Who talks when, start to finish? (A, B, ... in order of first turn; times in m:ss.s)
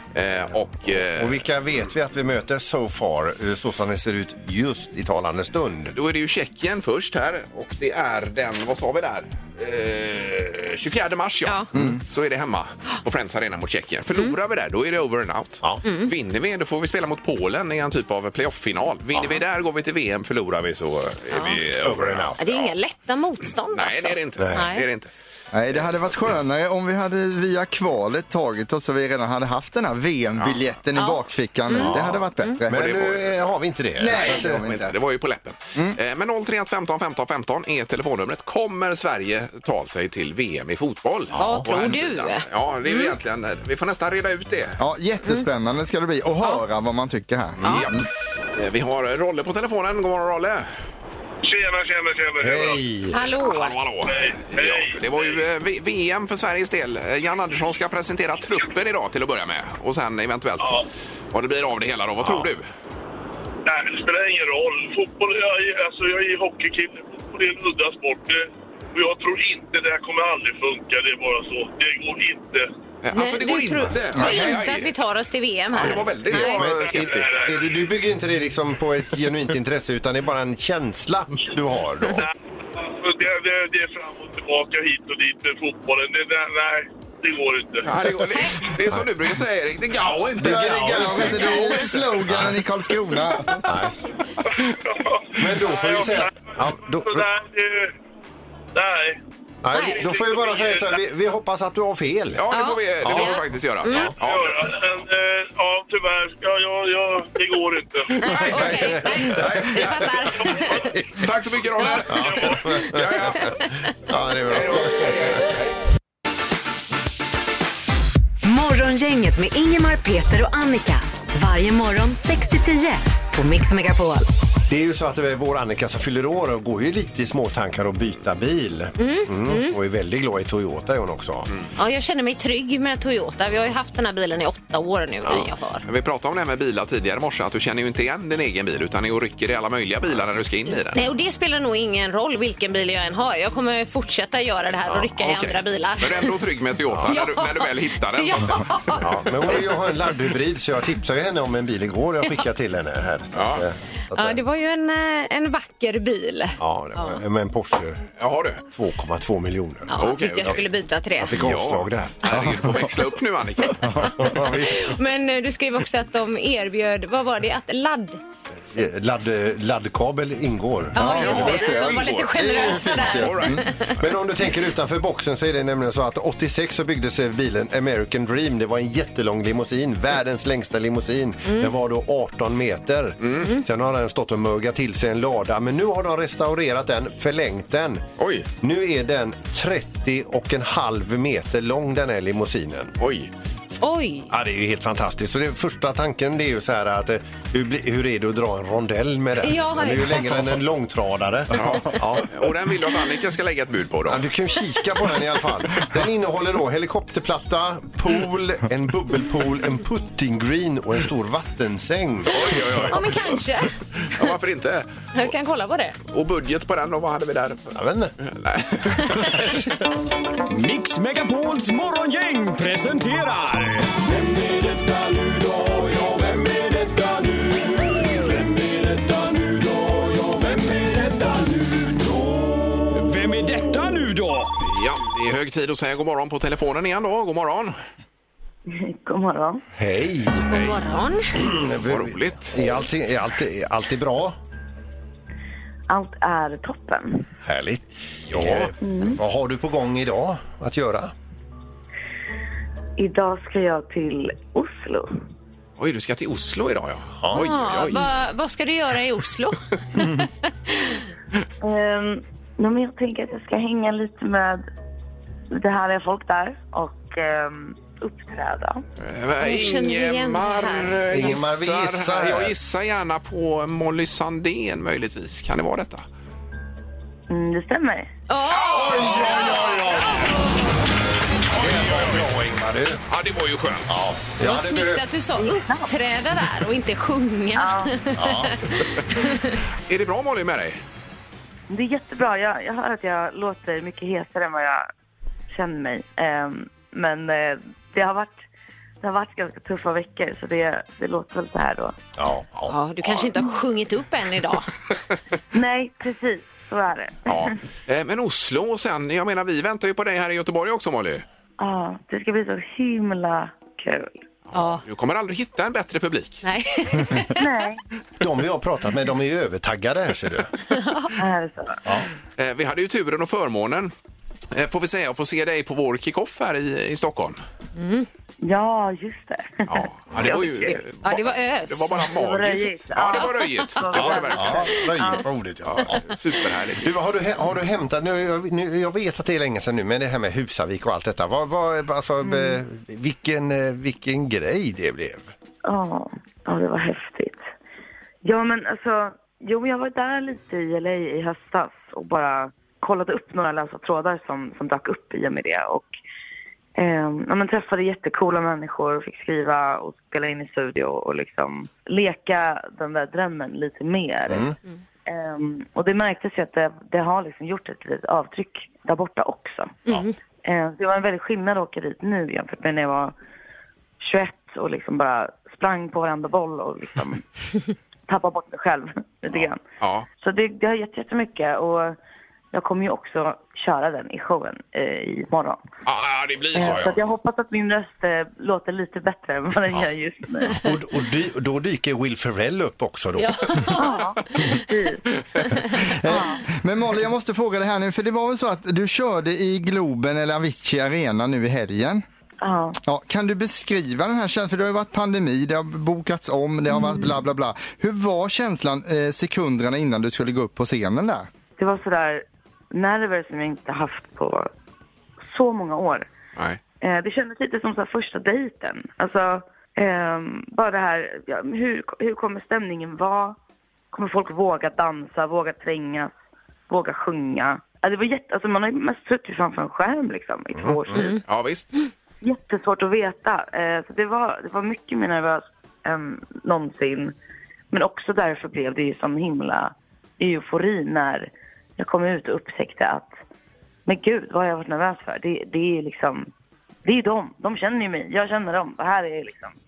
0:00.1-0:01.4 A
0:01.1-0:05.9 B
0:05.9-0:22.7 A
0:11.7-0:12.0 C
0:15.8-0:16.1 D
0:19.1-0:19.4 B
0:21.3-0:21.6 D
0:21.8-0:22.4 B
0:22.4-0:24.9 D
0:23.7-0:25.1 A
0:24.4-0:24.7 B
0:25.5-0:32.9 C
0:30.9-0:32.6 D
0:31.8-0:34.7 B
0:32.7-0:33.5 A
0:34.0-0:34.9 C
0:34.0-0:44.8 A
0:41.3-0:41.7 B
0:41.4-0:43.1 D
0:44.8-0:48.1 C
0:47.6-0:47.9 D
0:47.6-0:48.0 A
0:48.5-0:50.7 A
0:51.4-0:52.8 E
0:52.4-0:53.2 B
0:53.1-0:53.8 D
0:53.4-1:00.8 A
0:54.0-0:55.4 E
1:00.6-1:00.8 E
1:01.3-1:02.7 A
1:03.6-1:12.7 E
1:13.0-1:14.9 A
1:13.1-1:16.6 D
1:14.2-1:14.5 C
1:15.7-1:17.4 A
1:16.3-1:22.3 B
1:16.7-1:17.7 E
1:22.2-1:27.9 E
1:27.8-1:32.1 A
1:28.3-1:28.6 D
1:30.4-1:32.6 B
1:30.4-1:33.6 C
1:33.6-1:33.9 B
1:34.6-1:37.9 E
1:35.4-1:37.3 B
1:38.7-1:39.2 E
1:39.6-1:42.4 B
1:39.7-1:40.0 D
1:39.9-1:41.0 E
1:42.4-1:44.5 A
1:42.5-1:44.1 D
1:43.0-1:43.4 B
1:43.9-1:44.1 B
1:44.2-1:48.2 E
1:48.2-1:50.9 D
1:48.2-1:51.2 B
1:48.3-1:50.1 A
1:50.5-1:50.8 E
1:51.1-1:53.6 A
1:51.8-1:52.1 D
1:52.1-1:55.4 B
1:52.1-1:52.7 E
1:54.5-1:55.7 A
1:58.4-2:04.3 F
2:04.7-2:11.5 B
2:09.0-2:09.8 D
2:11.8-2:15.8 D
2:15.3-2:21.0 A
2:20.9-2:26.3 D
2:25.1-2:29.6 A
2:26.9-2:27.2 B
2:27.1-2:29.7 D
2:29.0-2:34.4 B
2:33.3-2:33.6 A
2:34.1-2:37.2 D
2:36.6-2:38.0 B
2:38.2-2:38.6 A
2:38.7-2:40.6 B
2:39.9-2:41.4 D
2:40.0-2:40.6 A
2:41.2-2:42.4 B
2:41.3-2:44.1 A
2:42.3-2:42.8 C
2:43.8-2:44.7 C
2:44.5-2:48.2 D
2:48.7-2:51.0 B
2:50.9-2:53.9 D
2:51.0-2:53.7 C
2:51.0-2:53.7 A
2:54.0-3:08.0 B
3:01.4-3:01.7 D
3:03.2-3:03.5 A
3:08.2-3:08.5 A
3:08.6-3:12.9 B
3:13.0-3:13.3 A
3:13.8-3:14.3 D
3:14.3-3:22.5 B
3:19.4-3:20.3 D
3:21.5-3:24.2 A
3:24.1-3:32.9 B
3:32.3-3:33.4 A
3:32.9-3:34.3 D
3:34.0-3:35.3 A
3:35.1-3:36.0 D
3:36.0-3:39.5 A
3:37.7-3:38.1 B
3:40.5-3:54.5 G
3:54.6-3:57.8 A
3:58.7-3:59.6 H
3:59.7-4:00.5 B
4:00.5-4:01.2 D
4:00.5-4:00.8 A
4:01.4-4:04.4 B
4:01.8-4:02.6 A
4:05.9-4:07.2 H
4:07.4-4:11.1 B
4:08.3-4:08.7 A
4:08.8-4:09.2 H
4:13.0-4:15.1 H
4:15.8-4:18.1 A
4:17.2-4:17.5 B
4:17.3-4:21.0 D
4:21.6-4:24.6 H
4:25.5-4:28.8 H
4:29.0-4:36.0 A
4:29.4-4:31.4 D
4:31.1-4:32.5 B
4:37.3-4:38.1 H
4:38.3-4:40.1 D
4:38.6-4:39.6 A
4:38.8-4:40.4 B
4:41.5-4:42.3 A
4:41.6-4:43.0 B
4:43.1-4:44.1 A
4:43.9-4:45.0 B
4:44.4-4:49.6 D
4:45.4-4:45.9 H
4:47.6-4:48.0 H
4:48.1-4:48.8 B
4:49.9-4:50.8 A
4:51.7-4:54.9 H
4:55.5-4:58.4 H
4:59.0-5:02.0 H
5:02.2-5:03.2 B
5:02.7-5:04.7 D
5:05.5-5:07.6 H
5:07.2-5:11.2 A
5:11.6-5:14.2 H
5:14.5-5:16.4 A
5:14.5-5:14.8 D
5:16.4-5:17.4 D
5:17.3-5:17.8 H
5:18.2-5:20.5 B
5:20.7-5:21.1 D
5:21.2-5:21.8 H
5:22.4-5:23.9 A
5:24.5-5:27.4 A
5:27.8-5:28.1 D
5:28.4-5:30.8 H
5:29.7-5:34.8 A
5:31.0-5:32.0 D
5:32.0-5:35.2 H
5:33.9-5:36.0 B
5:35.6-5:36.9 A
5:36.8-5:45.3 B
5:42.2-5:42.5 H
5:45.6-5:47.4 H
5:48.2-5:55.9 H
5:56.8-6:04.5 H
6:04.3-6:04.5 B
6:05.0-6:09.8 H
6:10.4-6:13.1 H
6:14.0-6:17.2 H
6:18.1-6:19.6 H
6:19.8-6:20.1 A
6:20.2-6:22.0 H
6:22.5-6:25.6 H
6:25.8-6:27.0 A
6:26.5-6:30.6 H
6:30.5-6:33.8 B
6:33.2-6:34.6 D
6:33.8-6:34.2 H
6:34.7-6:35.0 H
6:35.4-6:35.8 D
6:36.0-6:42.0 C
6:36.1-6:36.4 H
6:42.4-6:42.8 H
6:42.8-6:51.3 C
6:51.6-6:54.5 H
6:55.2-6:56.1 H
6:56.8-7:03.4 H
7:03.9-7:06.1 H
7:06.7-7:11.2 H
7:10.6-7:11.0 B
7:10.9-7:11.2 D
7:11.2-7:11.7 A
7:12.2-7:17.1 H
7:17.7-7:23.1 H
7:23.8-7:26.3 H
7:26.8-7:29.5 H